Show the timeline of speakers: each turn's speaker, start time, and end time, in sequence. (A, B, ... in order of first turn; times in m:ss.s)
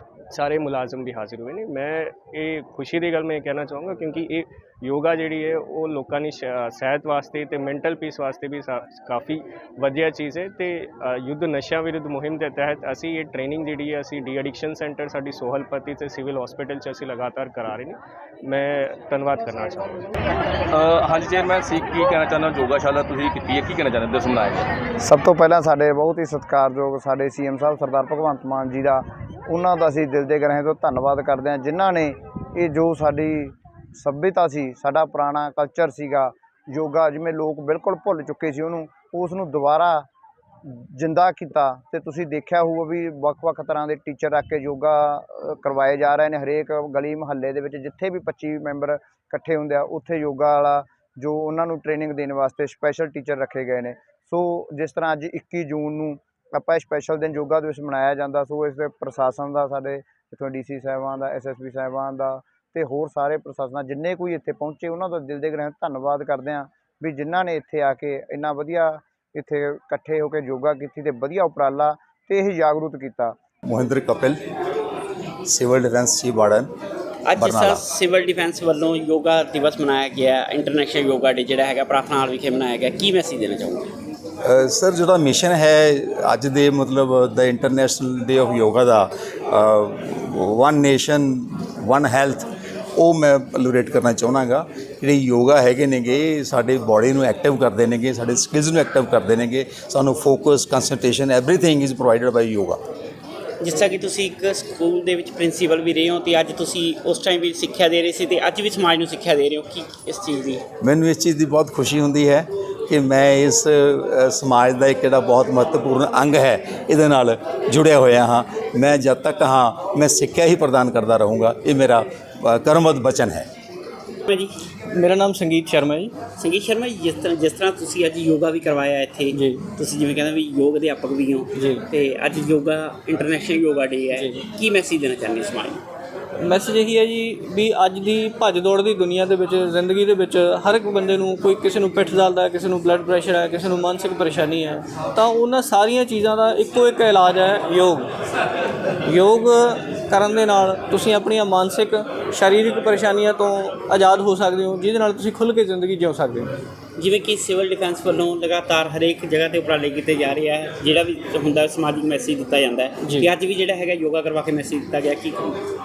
0:00.3-0:20.1 A
0:20.7-0:24.7 B
0:25.0-0:40.1 C
0:40.6-1:13.4 C
1:13.7-1:14.4 D
1:15.5-1:16.7 D
1:17.3-1:23.9 E
1:17.4-1:17.8 D
1:24.5-1:42.8 D
1:43.6-1:50.6 E
1:50.8-2:03.5 D
2:04.9-2:06.1 F
2:06.4-2:15.8 E
2:09.3-2:09.6 F
2:11.6-2:11.8 F
2:14.2-2:14.4 F
2:16.4-2:28.1 F
2:29.1-2:36.5 F
2:37.0-2:45.6 E
2:43.0-2:43.3 F